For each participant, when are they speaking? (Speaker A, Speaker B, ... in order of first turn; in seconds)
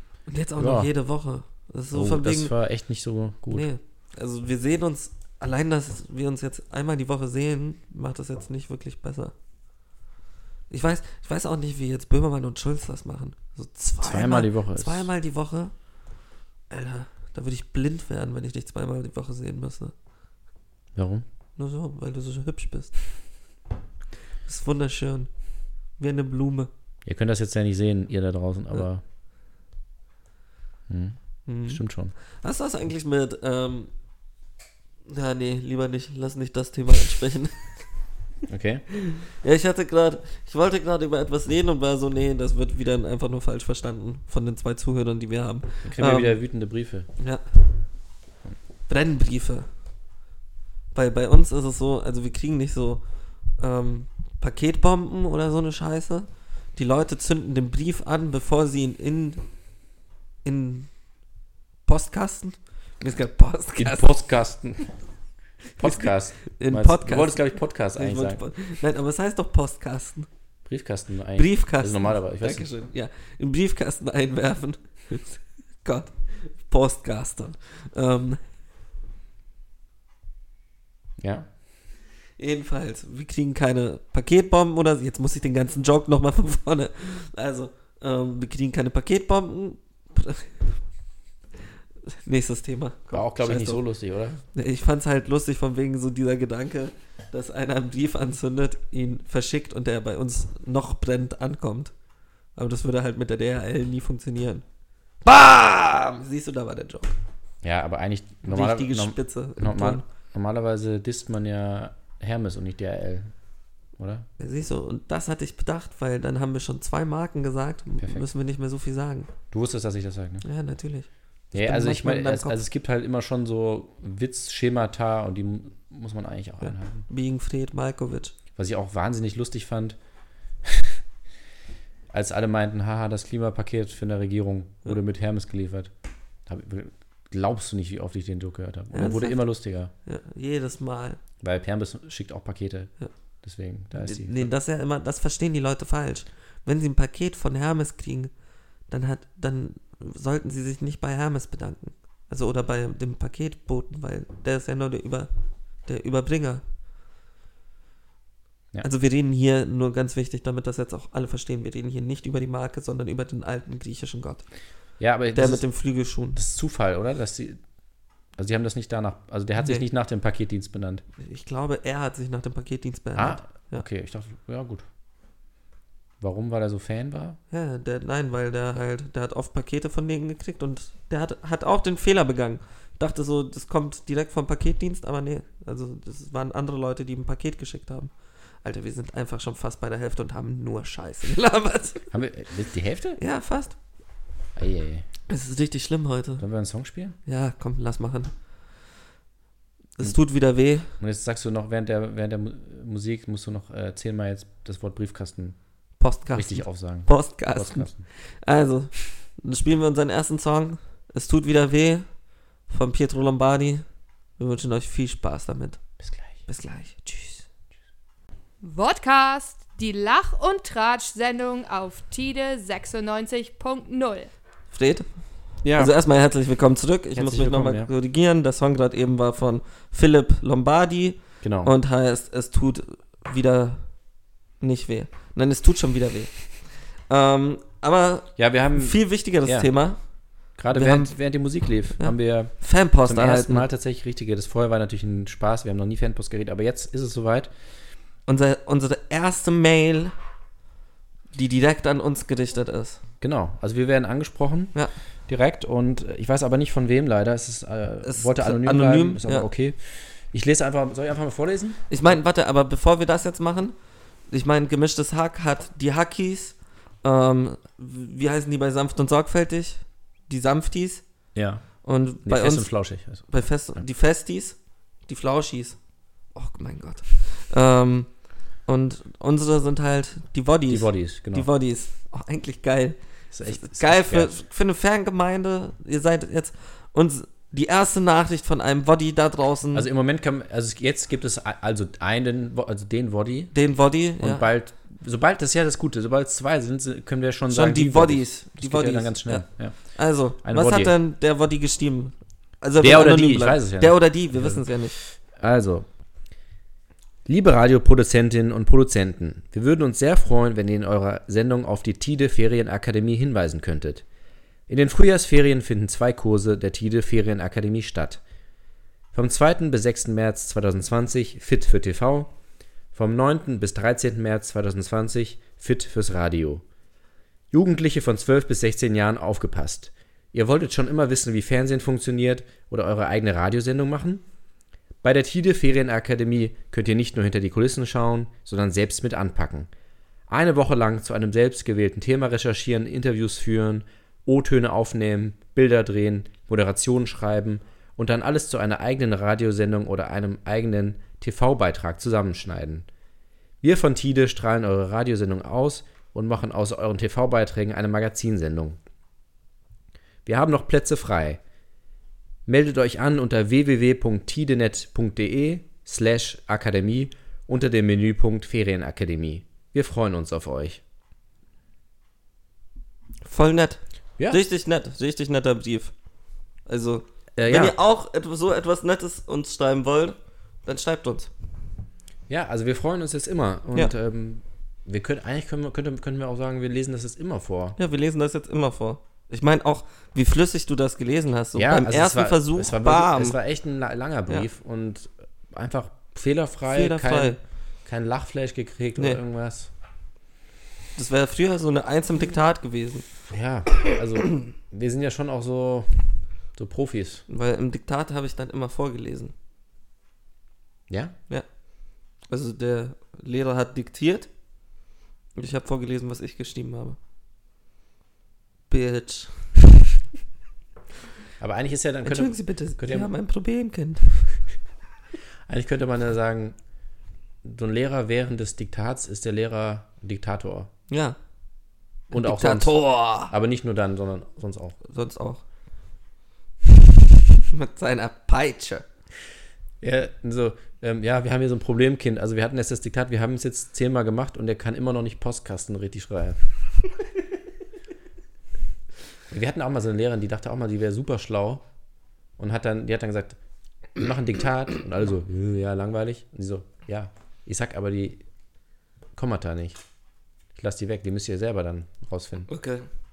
Speaker A: 0.3-2.5, 3.5-9.3, 10.7-15.7, 16.7-19.9, 21.6-23.0, 24.4-25.3, 26.0-26.7, 31.5-33.9, 35.1-37.8, 38.9-46.4, 47.2-47.4, 48.9-49.7, 50.9-59.5, 60.4-60.9, 61.9-64.1, 65.8-70.3, 71.4-78.4, 82.4-90.6, 92.1-93.8, 94.5-101.9, 102.6-104.6, 105.2-107.1, 108.4-110.0, 114.4-119.3, 120.4-122.6, 126.6-128.3, 138.9-139.4, 140.1-141.2, 143.9-148.3, 148.9-155.3, 155.9-156.6, 158.8-164.5, 165.3-166.4, 171.2-173.8, 177.5-192.1, 193.2-193.8, 195.3-196.4, 197.3-198.3, 200.0-200.9, 206.0-212.1, 212.7-213.8, 214.4-215.8, 216.5-217.5, 224.7-225.1, 225.7-233.9, 234.6-240.0, 240.7-241.2, 242.0-243.7, 248.3-250.1, 251.3-253.0, 258.0-259.5, 261.9-263.8, 264.3-271.0, 271.8-275.8, 276.3-289.9, 293.5-294.5, 297.5-305.0, 373.2-375.9, 376.7-381.3, 387.8-393.4, 396.7-397.4, 401.0-403.1, 407.3-409.3, 412.3-414.3, 415.4-417.0, 418.7-419.5, 422.1-424.4, 430.9-431.2, 432.1-433.3, 434.9-435.4, 437.5-438.9, 462.5-462.9
Speaker B: 0.6-0.9, 1.9-3.7, 14.0-15.1, 20.9-21.2, 27.1-29.0, 30.9-32.1, 38.5-38.9, 45.9-47.1, 63.8-65.0, 65.8-68.4, 70.7-72.7, 81.2-81.5, 93.1-94.4, 107.6-113.3, 114.0-114.3, 118.0-118.3, 119.5-120.5, 121.5-127.1, 128.6-130.0, 130.6-131.0, 132.1-135.9, 136.5-139.9, 141.4-142.9, 143.4-144.5, 165.0-165.7, 166.3-167.6, 168.4-171.0, 173.2-174.8, 176.2-177.4, 192.1-193.2, 194.6-195.1, 196.4-197.2, 201.0-205.6, 206.3-208.1, 216.0-216.3, 225.6-225.9, 227.2-227.9, 231.4-231.7, 238.4-239.7, 240.6-247.5, 253.2-254.8, 255.3-261.8, 271.4-273.8, 280.7-281.5, 283.3-284.3, 289.7-293.5, 294.2-300.9, 302.8-305.9, 307.3-314.0, 314.7-318.2, 319.1-322.3, 322.9-326.6, 327.5-334.2, 335.0-339.7, 340.3-352.9, 353.6-358.8, 360.3-361.4, 362.5-370.8, 377.4-377.8, 382.3-387.8, 391.6-399.7, 403.3-407.2, 410.9-411.1, 421.4-423.1, 425.5-426.6, 427.4-430.7, 432.1-434.8, 439.8-446.5, 449.3-451.6, 452.4-453.4, 454.0-458.2, 459.2-459.8, 460.6-462.5
Speaker C: 218.6-224.3